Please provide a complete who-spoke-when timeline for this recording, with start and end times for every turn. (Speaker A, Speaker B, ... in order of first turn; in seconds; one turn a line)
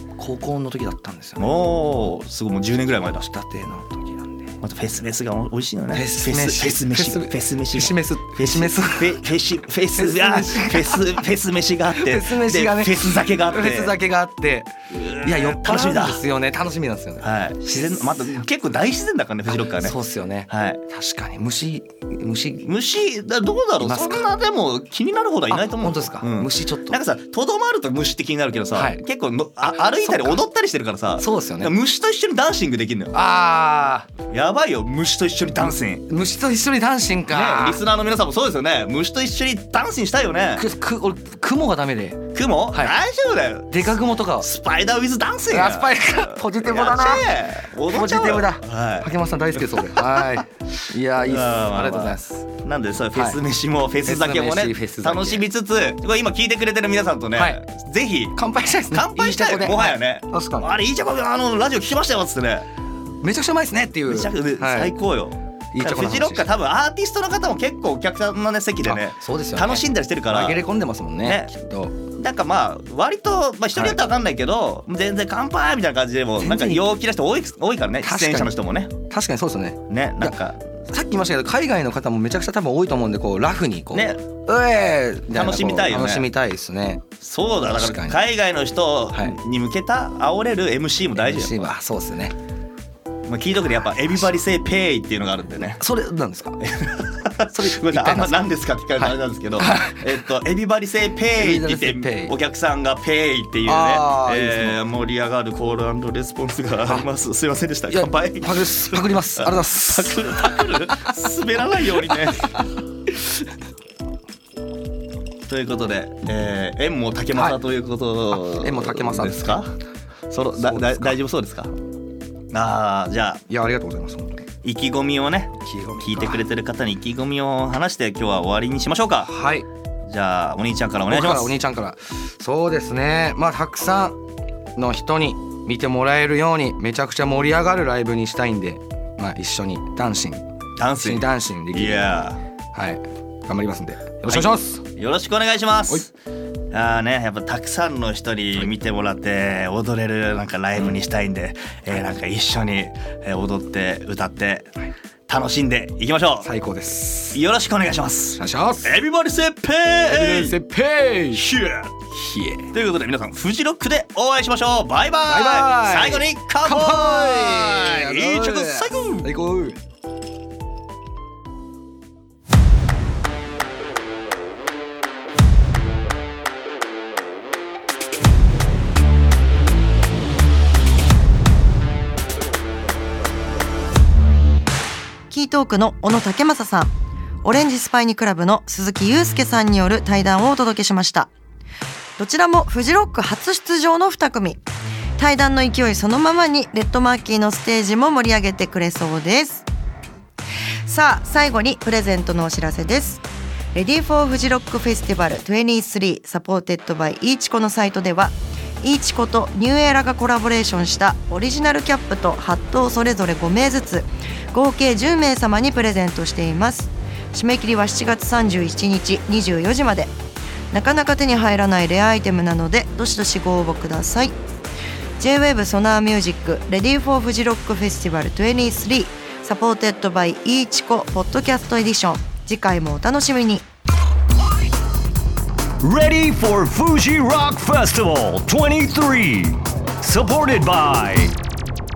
Speaker A: 0.2-1.5
Speaker B: 1.4-3.3
Speaker A: 3.1-4.5
Speaker B: 4.6-14.0
Speaker A: 5.9-9.3
Speaker A: 9.9-11.2
Speaker A: 11.9-18.4
Speaker B: 14.9-16.2
Speaker B: 17.2-19.9
Speaker A: 19.5-22.7
Speaker B: 20.5-20.8
Speaker B: 22.6-33.2
Speaker A: 23.8-24.3
Speaker A: 25.5-27.0
Speaker A: 28.7-29.0
Speaker A: 29.7-30.4
Speaker A: 31.2-31.7
Speaker A: 33.1-34.1
Speaker B: 34.3-36.1
Speaker A: 35.7-37.8
Speaker B: 37.3-40.7
Speaker A: 40.5-43.0
Speaker B: 42.3-50.3
Speaker A: 43.7-44.5
Speaker A: 45.5-52.5
Speaker B: 51.2-58.4
Speaker A: 53.1-53.4
Speaker A: 54.0-55.5
Speaker A: 58.4-60.7
Speaker B: 58.9-62.7
Speaker A: 63.2-64.9
Speaker B: 64.1-70.6
Speaker A: 65.7-66.5
Speaker A: 68.8-72.0
Speaker B: 71.2-71.5
Speaker B: 72.2-79.0
Speaker A: 76.4-76.8
Speaker A: 78.0-80.4
Speaker B: 79.9-80.8
Speaker A: 80.9-87.1
Speaker B: 83.9-84.2
Speaker B: 85.3-86.3
Speaker B: 87.2-91.7
Speaker A: 87.7-88.2
Speaker A: 89.1-89.4
Speaker A: 91.2-92.3
Speaker B: 93.3-95.8
Speaker A: 95.8-96.6
Speaker B: 96.6-112.6
Speaker A: 97.5-98.4
Speaker A: 99.0-100.1
Speaker A: 101.3-102.3
Speaker A: 103.7-104.8
Speaker A: 107.9-111.2
Speaker A: 112.0-113.4
Speaker B: 115.5-119.7
Speaker A: 118.3-119.6
Speaker B: 120.3-121.7
Speaker A: 120.6-121.2
Speaker B: 122.5-123.4
Speaker A: 123.5-124.5
Speaker B: 124.6-129.3
Speaker A: 125.6-126.5
Speaker A: 129.2-129.7
Speaker B: 130.1-131.5
Speaker A: 131.1-134.2
Speaker A: 134.7-140.4
Speaker B: 140.8-142.4
Speaker A: 141.0-144.8
Speaker B: 144.2-146.1
Speaker B: 146.7-154.7
Speaker B: 155.3-156.5
Speaker A: 156.4-157.4
Speaker B: 157.3-160.6
Speaker A: 158.4-159.0
Speaker A: 160.1-161.5
Speaker B: 161.3-162.0
Speaker A: 162.1-162.7
Speaker B: 162.7-169.3
Speaker A: 165.2-169.8
Speaker C: 185.3-186.9
Speaker C: 187.4-191.3
Speaker C: 192.2-194.6
Speaker C: 195.2-199.7
Speaker C: 200.8-203.2
Speaker C: 203.7-220.1
Speaker C: 220.7-224.3
Speaker C: 225.2-233.7
Speaker D: 235.8-241.3